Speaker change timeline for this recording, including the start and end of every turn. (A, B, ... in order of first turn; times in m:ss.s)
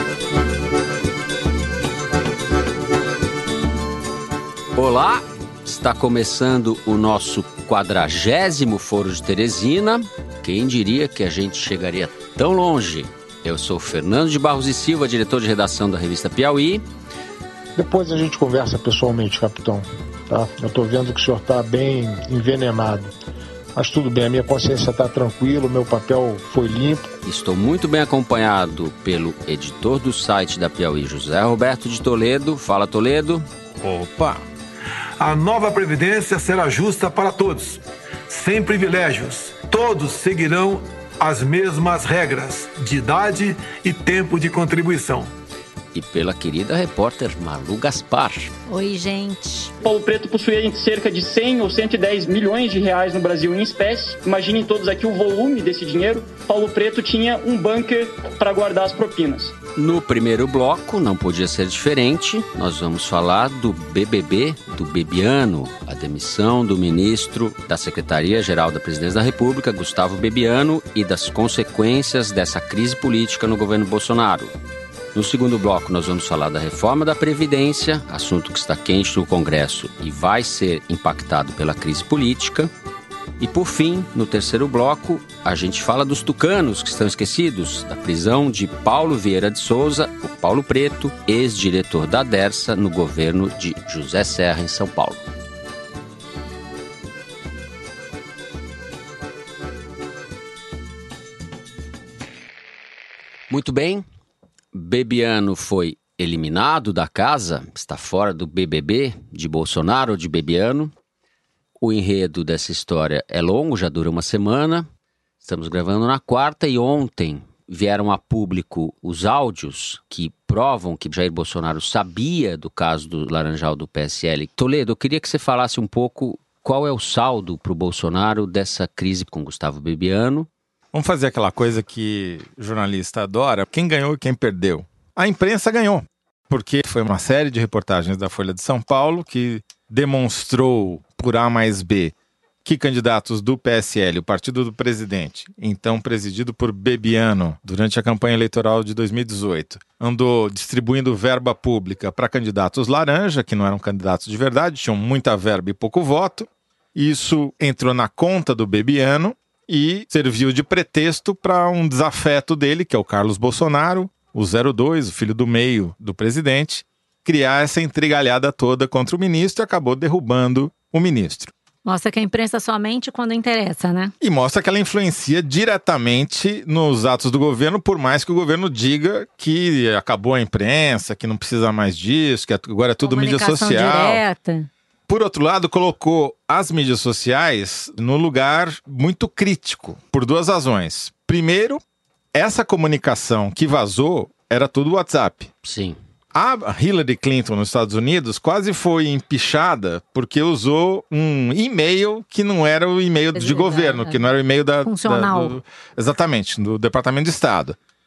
0:04.7-0:16.8 A
0:17.8-0:23.1 B
0:23.7-0:27.1 B
0:27.2-0:33.4 A
0:33.8-0:34.4 C
0:35.2-0:45.3 D
0:45.9-0:48.5 A
0:48.7-0:49.7 E
0:49.8-0:59.5 F
0:59.8-1:14.5 A
1:15.1-1:22.7 A
1:23.4-1:35.2 A
1:43.5-1:44.0 A
1:44.7-1:50.9 A
1:51.8-1:54.9 A
1:55.4-2:10.5 A
2:10.9-2:22.1 C
2:22.6-2:51.5 C
2:51.8-2:54.1 E
2:54.2-3:04.2 C
3:03.0-3:04.7 E
3:05.1-3:11.8 C
3:12.3-3:15.5 C
3:15.6-3:16.0 A
3:16.3-3:27.8 C
3:23.3-3:24.2 E
3:24.8-3:25.6 E